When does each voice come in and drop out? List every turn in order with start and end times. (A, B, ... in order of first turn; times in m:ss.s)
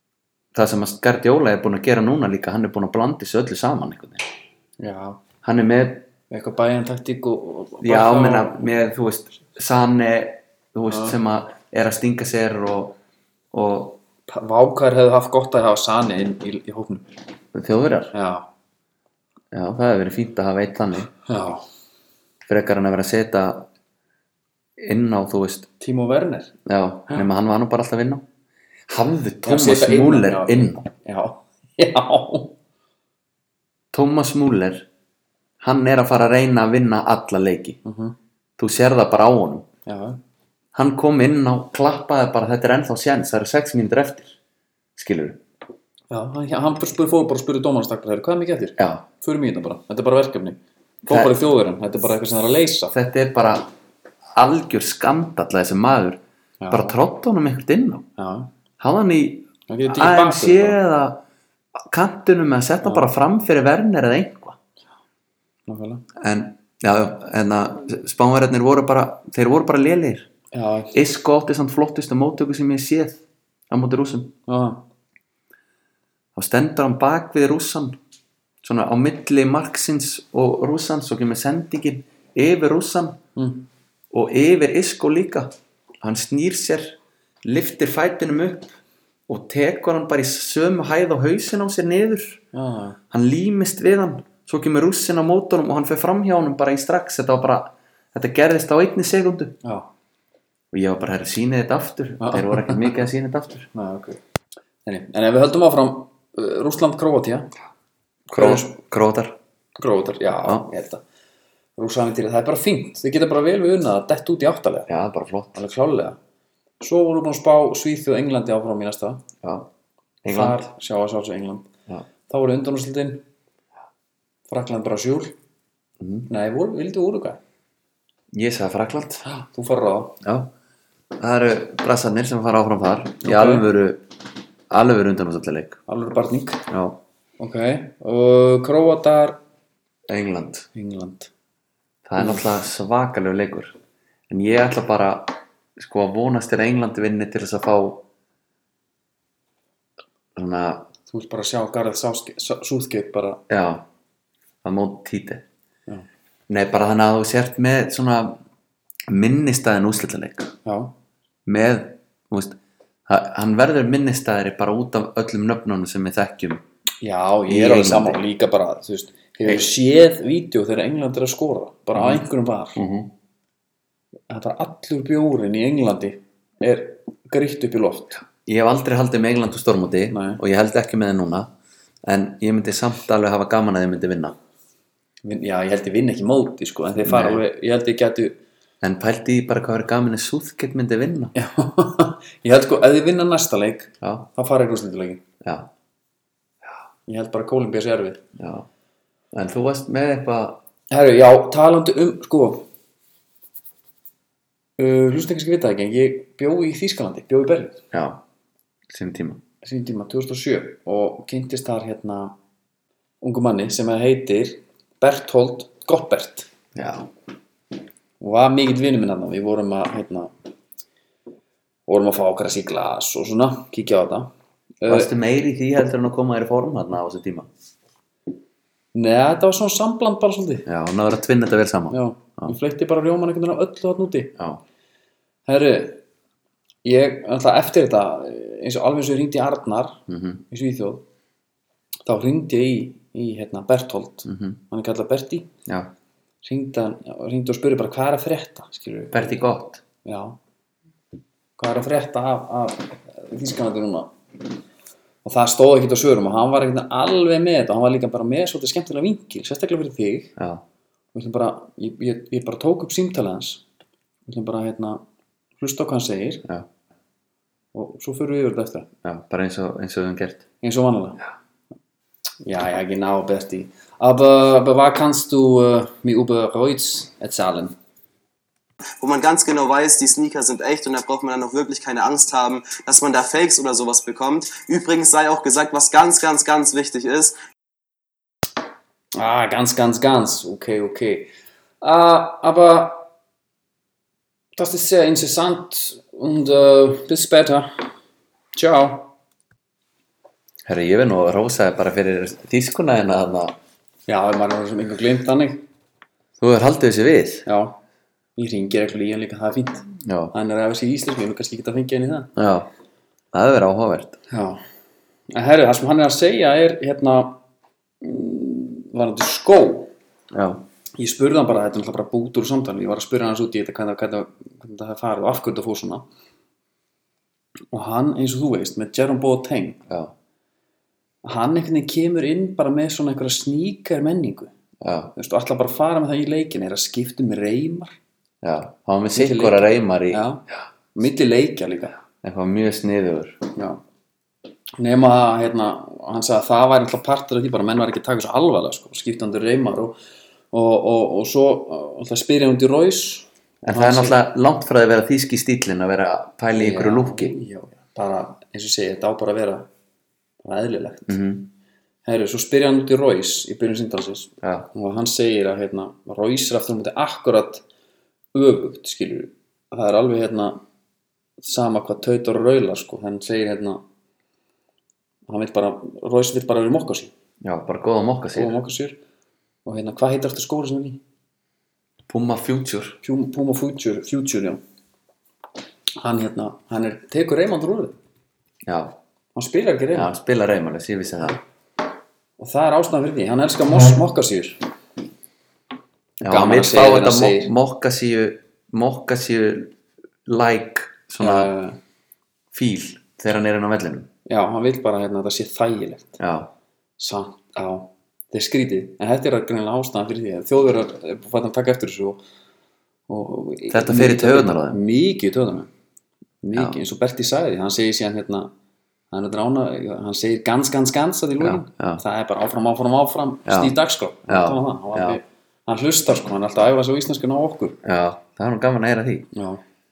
0:00.5-0:04.2 A
0:04.8-0:05.2 B
0:05.4-0:06.1 A
0:06.3-0:08.7 B
0:07.8-0:13.0 A
0:10.9-0:11.2 B
0:13.5-0:14.0 A
0:14.3-0:17.1 B
0:17.5-0:18.1 A
0:18.1-0:18.5 B
0:19.5-0:21.1 A
0:21.2-0:21.6 B
0:22.4-0:23.7 A
0:24.8-0:25.7 A
0:25.8-0:26.5 B
0:26.6-0:28.2 A
0:28.9-0:30.8 A
0:29.4-0:32.5 B
0:33.9-0:34.9 A
0:35.6-0:37.8 A
0:37.8-0:38.1 B
0:38.6-0:39.6 A
0:39.8-0:40.2 B
0:40.7-0:44.4 A
0:45.0-0:45.4 A
0:46.1-0:52.9 B
0:48.8-0:49.0 A
0:51.1-0:51.3 A
0:52.9-0:53.7 A
0:54.4-0:58.0 A
0:56.6-0:57.0 B
0:58.2-0:58.5 B
0:58.8-1:01.2 A
0:59.7-1:00.8 B
1:01.8-1:04.6 A
1:02.8-1:03.1 B
1:05.7-1:06.0 B
1:06.1-1:10.3 A
1:10.5-1:11.0 B
1:10.9-1:14.3 A
1:14.5-1:14.8 B
1:16.4-1:18.0 A
1:18.6-1:23.2 A
1:23.4-1:23.7 B
1:24.1-1:28.8 A
1:29.3-1:32.4 A
1:32.5-1:33.0 B
1:33.1-1:39.6 A
1:39.6-1:39.9 B
1:40.7-1:43.7 A
1:42.2-1:43.0 B
1:43.7-1:44.2 B
1:44.8-1:47.5 B
1:48.3-1:49.4 A
1:48.3-1:48.7 B
1:49.8-1:51.0 B
1:51.8-1:54.9 B
1:54.9-1:55.6 A
1:55.5-1:56.2 B
1:56.8-1:59.2 B
1:59.4-1:59.7 A
2:00.2-2:00.7 A
2:00.3-2:01.7 B
2:02.3-2:03.2 B
2:04.5-2:05.3 B
2:06.0-2:06.3 A
2:06.3-2:07.4 B
2:08.3-2:09.2 A
2:09.2-2:10.2 B
2:10.2-2:10.5 A
2:11.2-2:14.1 A
2:13.2-2:13.7 B
2:14.7-2:15.8 A
2:15.9-2:16.6 B
2:16.7-2:17.0 A
2:17.4-2:19.4 B
2:20.1-2:20.7 A
2:20.7-2:21.3 B
2:22.0-2:23.7 A
2:24.3-2:28.0 A
2:30.4-2:30.9 A
2:31.1-2:33.4 B
2:33.5-2:33.8 A
2:34.6-2:35.4 A
2:36.5-2:38.4 A
2:39.1-2:40.5 A
2:40.6-2:40.9 B
2:41.4-2:46.6 A
2:47.0-2:52.8 B
2:47.5-2:48.2 A
2:51.9-2:52.2 A
2:52.8-2:53.1 A
2:54.3-2:58.2 B
2:58.3-3:01.5 A
3:00.1-3:00.4 B
3:02.0-3:04.4 A
3:05.2-3:08.4 B
3:07.0-3:07.4 A
3:08.8-3:11.3 A
3:11.3-3:15.2 B
3:14.0-3:14.3 A
3:15.4-3:15.7 A
3:17.1-3:18.2 B
3:18.4-3:18.6 A
3:19.3-3:20.6 A
3:20.9-3:22.6 B
3:24.8-3:27.8 B
3:27.9-3:28.2 A
3:28.9-3:29.4 A
3:29.6-3:32.3 B
3:33.2-3:36.5 B
3:36.7-3:37.1 A
3:38.2-3:40.3 B
3:41.9-3:44.3 B
3:44.8-3:45.1 B
3:44.9-3:47.5 A
3:48.9-3:50.7 B
3:50.6-3:52.5 A
3:51.9-3:54.3 B
3:55.5-3:56.0 B
3:56.8-4:01.0 B
4:00.1-4:00.4 A
4:02.0-4:05.5 B
4:04.2-4:04.6 A
4:05.7-4:05.9 A
4:06.4-4:09.3 B
4:09.1-4:09.8 A
4:10.0-4:10.4 B
4:11.6-4:14.2 B
4:15.2-4:20.3 B
4:20.4-4:20.6 A
4:21.1-4:23.6 B
4:24.3-4:25.0 B
4:25.6-4:26.5 B
4:27.7-4:28.9 B
4:29.0-4:30.4 A
4:30.6-4:31.2 B
4:32.4-4:37.8 B
4:39.0-4:47.4 C
4:49.2-4:53.1 B
4:54.6-4:57.9 B
4:58.5-4:59.1 B
5:00.6-5:03.6 A
5:04.1-5:05.6 B
5:06.4-5:07.5 A
5:07.4-5:07.8 B
5:08.4-5:12.3 B
5:10.0-5:10.3 A
5:12.4-5:12.7 A
5:13.3-5:14.2 A
5:14.3-5:14.6 B
5:15.3-5:17.4 B
5:18.0-5:19.9 B
5:20.3-5:20.6 A
5:21.0-5:26.0 B
5:27.7-5:29.8 B
5:31.2-5:34.5 B
5:34.8-5:35.1 A
5:35.1-5:38.0 B
5:38.4-5:40.6 A
5:39.1-5:42.0 B
5:42.2-5:43.5 A
5:44.8-5:50.0 B
5:50.5-5:54.2 B
5:53.6-5:57.4 A
5:56.5-5:59.7 B
6:00.4-6:01.2 B
6:01.1-6:01.5 A
6:02.0-6:07.6 B
6:04.4-6:04.7 A
6:08.3-6:10.6 B
6:11.4-6:13.8 B
6:15.3-6:17.1 B
6:17.4-6:18.6 A
6:18.3-6:19.0 B
6:19.6-6:21.0 B
6:22.1-6:23.0 A
6:23.0-6:24.6 B
6:26.0-6:28.0 B
6:28.6-6:29.0 A
6:29.3-6:30.1 B
6:29.9-6:31.4 A
6:32.4-6:34.6 B
6:36.2-6:39.7 A
6:36.2-6:37.5 B
6:40.2-6:41.5 A
6:41.2-6:41.8 B
6:42.5-6:44.1 A
6:44.2-6:46.2 B
6:46.2-6:46.5 A
6:47.0-6:52.2 B
6:53.1-6:55.7 B
6:53.7-6:54.8 A
6:56.4-6:58.5 B
6:59.1-7:07.8 B
7:01.4-7:02.0 A
7:03.4-7:03.7 A
7:04.3-7:05.2 A
7:07.8-7:09.3 A
7:09.3-7:09.6 B